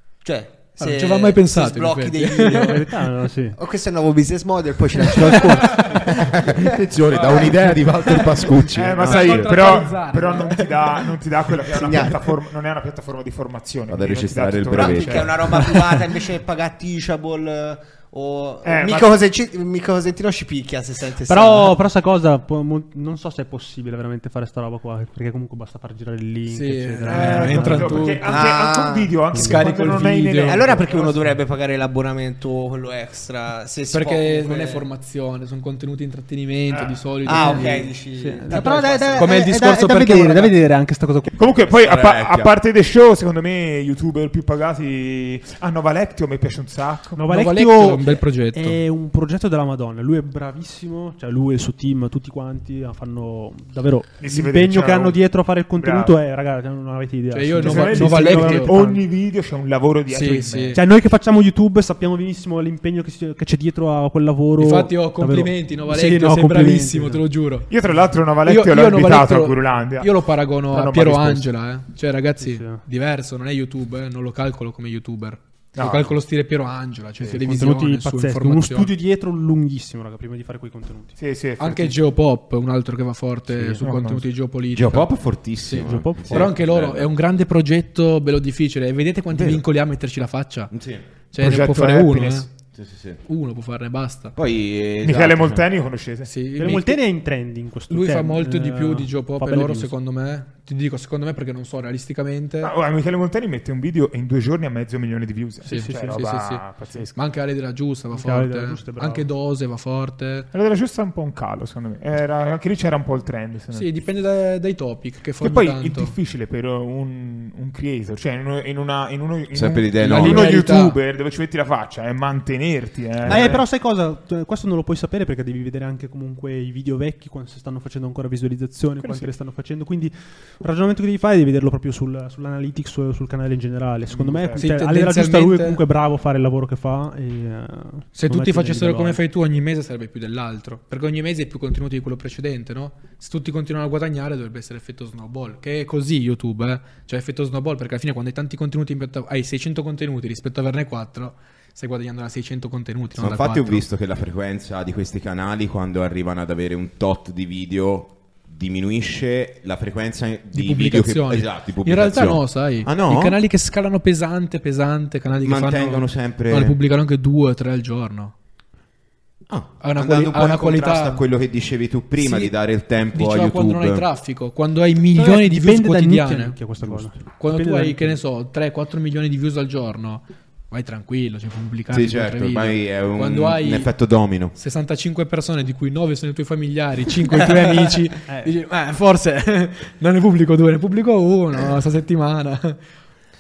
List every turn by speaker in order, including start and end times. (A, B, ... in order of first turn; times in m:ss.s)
0:00.2-0:03.0 A
0:00.8-0:02.8 B
0:02.4-0:03.6 C
0:03.6-0:06.7 A
0:05.0-0:06.0 C
0:06.0-0:09.6 D
0:07.3-0:07.9 B
0:08.7-0:15.6 E
0:09.0-0:10.8 B
0:10.4-0:10.8 A
0:11.6-0:12.3 A
0:13.9-0:15.6 D
0:14.7-0:21.8 A
0:18.6-0:19.2 E
0:21.3-0:28.2 C
0:26.5-0:28.3 B
0:27.1-0:31.2 E
0:28.2-0:29.2 A
0:29.3-0:29.7 C
0:29.3-0:30.7 B
0:30.4-0:34.9 A
0:33.9-0:37.9 B
0:37.2-0:39.4 A
0:37.4-0:41.3 C
0:39.2-0:40.5 B
0:41.4-0:47.2 E
0:41.7-0:42.5 D
0:47.2-0:59.0 C
0:47.3-0:48.8 B
0:54.2-0:55.2 E
0:55.8-0:56.2 E
0:57.3-0:58.8 B
0:57.6-1:00.8 E
1:00.1-1:00.8 B
1:00.7-1:07.2 C
1:04.6-1:07.7 B
1:07.7-1:10.1 E
1:08.4-1:18.9 B
1:10.7-1:11.5 E
1:12.4-1:12.8 C
1:15.8-1:16.1 E
1:17.3-1:21.2 C
1:21.2-1:22.0 E
1:21.6-1:25.1 B
1:23.8-1:24.2 E
1:24.7-1:27.1 D
1:25.6-1:30.7 B
1:25.8-1:26.5 C
1:29.3-1:29.6 D
1:30.7-1:31.0 D
1:31.3-1:32.5 B
1:31.4-1:32.5 E
1:32.8-1:33.2 D
1:33.2-1:34.4 B
1:34.4-1:35.7 D
1:35.0-1:36.3 E
1:36.2-1:37.0 B
1:36.6-1:39.9 C
1:37.9-1:42.7 B
1:42.6-1:47.1 E
1:45.6-1:46.2 C
1:45.7-1:50.5 B
1:48.1-1:49.3 C
1:50.5-1:54.0 E
1:53.7-1:56.2 B
1:55.4-2:03.6 E
1:59.5-2:00.5 D
2:00.0-2:01.0 B
2:03.2-2:19.2 C
2:09.0-2:09.3 E
2:14.1-2:14.7 E
2:14.6-2:15.8 B
2:18.2-2:33.9 B
2:33.2-2:43.4 D
2:40.5-2:48.3 B
2:45.4-2:46.8 D
2:49.5-2:54.1 D
2:49.8-2:51.2 B
2:52.2-2:52.5 B
2:53.1-2:56.6 B
2:55.2-2:58.2 C
2:57.4-3:03.9 B
3:01.9-3:04.6 D
3:04.5-3:12.8 B
3:08.3-3:08.5 C